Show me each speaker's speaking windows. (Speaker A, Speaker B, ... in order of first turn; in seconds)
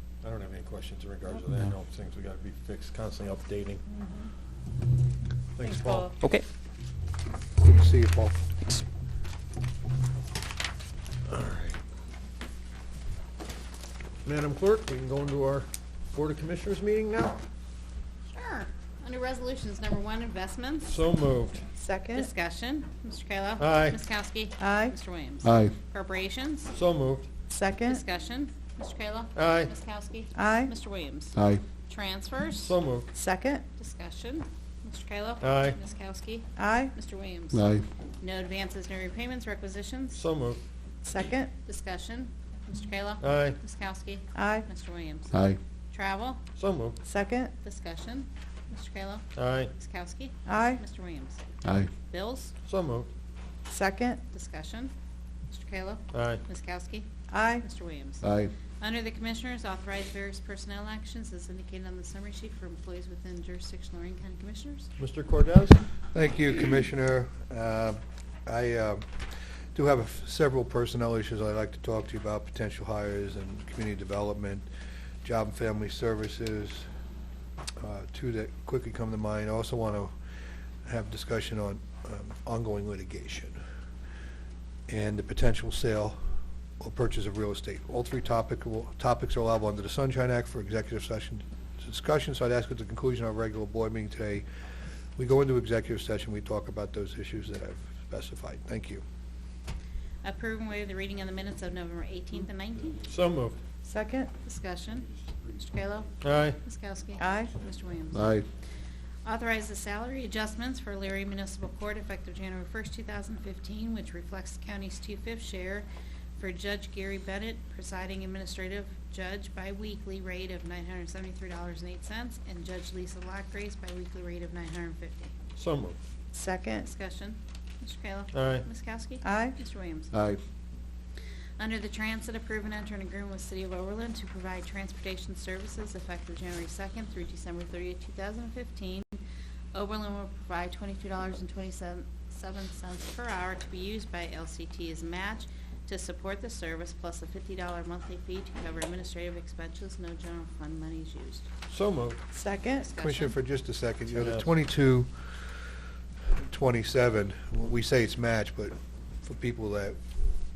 Speaker A: 0.2-3.8, 5.6-6.1, 11.3-11.8, 14.2-17.4, 20.9-21.6, 23.6-24.0, 26.7-27.3, 29.4-29.7, 32.6-33.1, 35.4-35.8, 40.1-40.6, 43.2-43.6, 46.5-47.0, 49.3-49.7, 52.6-53.1, 56.1-56.4, 65.0-65.8, 103.0-103.6, 106.2-106.6, 125.6-126.0, 128.3-128.7, 151.7-152.2, 154.1-154.5
Speaker B: 5.6-6.1, 18.3-21.0, 22.1-26.7, 27.8-32.8, 33.8-40.2, 41.6-46.4, 47.6-51.4, 52.0-52.5, 54.3-54.9, 55.5-64.9, 100.2-103.1, 104.4-108.4, 109.2-115.8, 116.4-125.3, 126.8-130.2, 131.6-139.2, 139.7-151.5, 152.8-153.3
Speaker C: 7.6-8.4, 66.1-74.7, 75.2-76.9, 77.8-80.1, 80.8-83.6, 84.9-86.2, 86.8-94.5, 95.2-99.0, 152.9-155.6, 156.3-160.0
Speaker D: 21.8-22.3, 24.6-24.9, 27.5-28.0, 30.3-30.7, 33.1-33.6, 36.5-36.9, 41.0-41.5, 44.3-44.7, 47.0-47.5, 50.5-50.8, 53.7-54.2, 57.3-57.6, 103.8-104.3, 107.2-107.5, 126.3-126.8, 129.2-129.5, 152.3-152.8
Speaker E: 25.4-25.7, 31.3-31.6, 37.5-37.9, 45.3-45.6, 51.6-51.9, 58.2-58.5, 108.1-108.4, 130.1-130.4